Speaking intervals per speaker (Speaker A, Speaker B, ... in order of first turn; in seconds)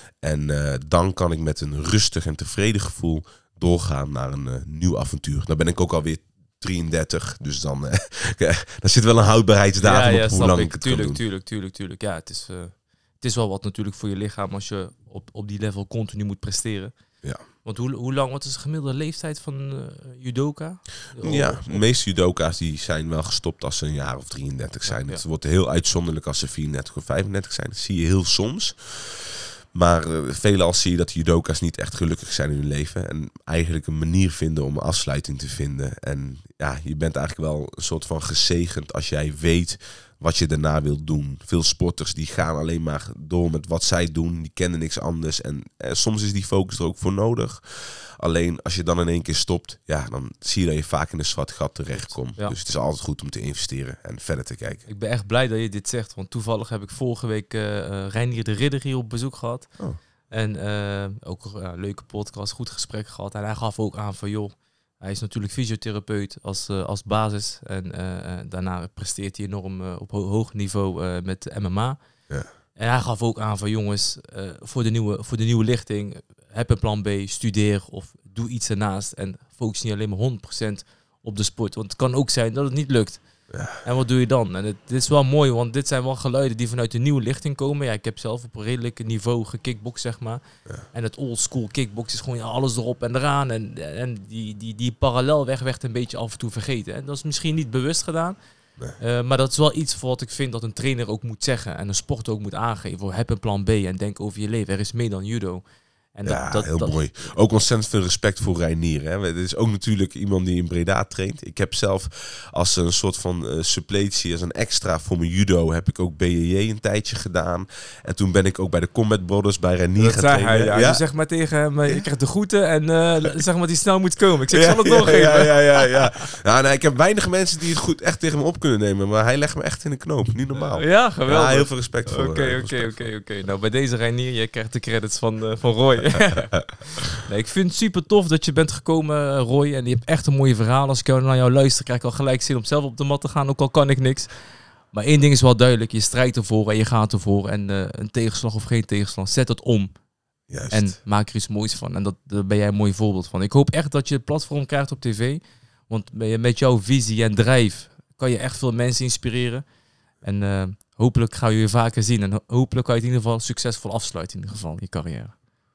Speaker A: 0.2-11.2, 21.2-54.8, 83.5-83.8, 106.2-121.0, 124.5-133.1, 150.5-151.0
Speaker B: 9.8-16.9, 17.6-21.8, 24.9-25.2, 54.9-59.7, 60.3-72.0, 72.7-83.2, 83.8-90.4, 90.9-98.4, 99.0-105.6, 106.1-107.3, 120.0-126.2, 130.6-144.3, 144.9-149.9, 150.7-159.6, 160.2-165.3